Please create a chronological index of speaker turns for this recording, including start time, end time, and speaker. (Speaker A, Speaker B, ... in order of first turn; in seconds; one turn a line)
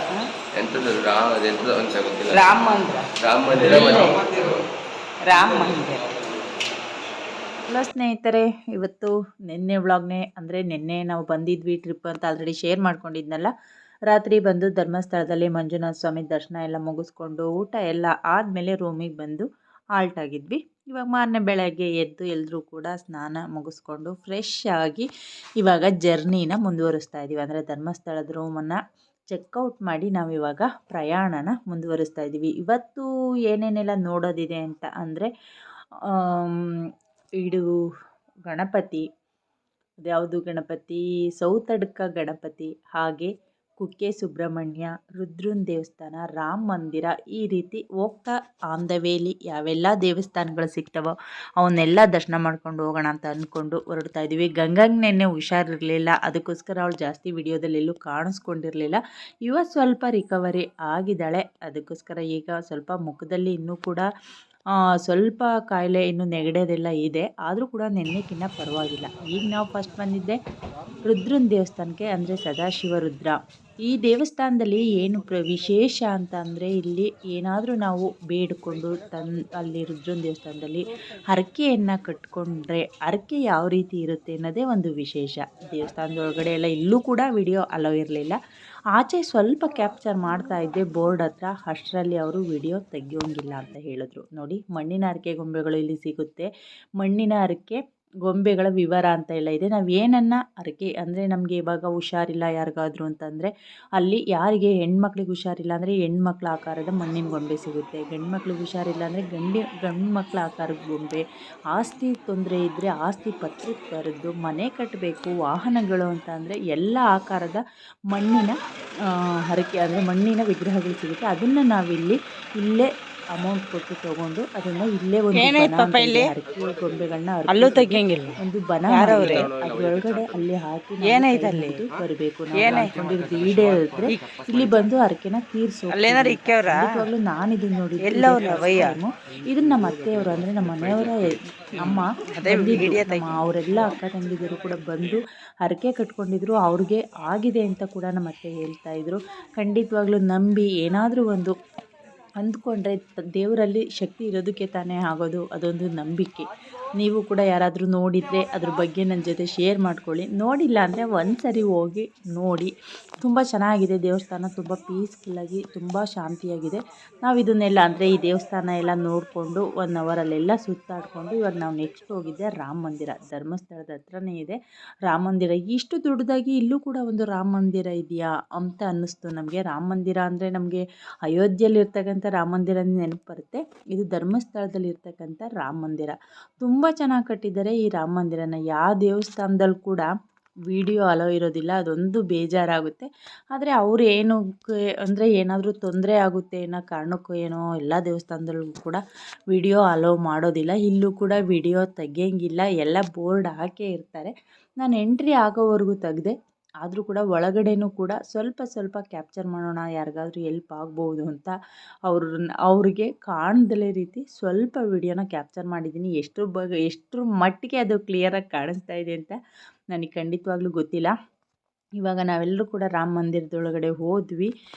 Speaker A: 0.5-2.5
Speaker B: 2.3-3.1
Speaker A: 3.2-4.6
Speaker B: 3.7-4.2
Speaker B: 5.2-6.0
Speaker A: 5.3-5.9
Speaker C: 7.7-13.5
Speaker C: 14.1-25.1
Speaker C: 25.6-28.8
Speaker C: 29.3-35.3
Speaker C: 36.1-36.7
Speaker C: 37.4-37.8
Speaker C: 38.5-39.0
Speaker C: 40.0-64.1
Speaker C: 65.0-70.4
Speaker C: 71.0-88.4
Speaker C: 88.9-118.5
Speaker C: 119.1-151.5
Speaker B: 125.3-126.3
Speaker B: 127.5-128.3
Speaker B: 128.9-129.5
Speaker A: 129.3-130.1
Speaker B: 131.0-131.9
Speaker B: 132.5-132.9
Speaker B: 135.9-136.8
Speaker B: 138.0-138.9
Speaker B: 141.9-143.3
Speaker C: 152.4-190.1
Speaker C: 190.7-211.5
Speaker C: 212.1-219.3
Speaker C: 219.9-221.1
Speaker C: 222.0-224.5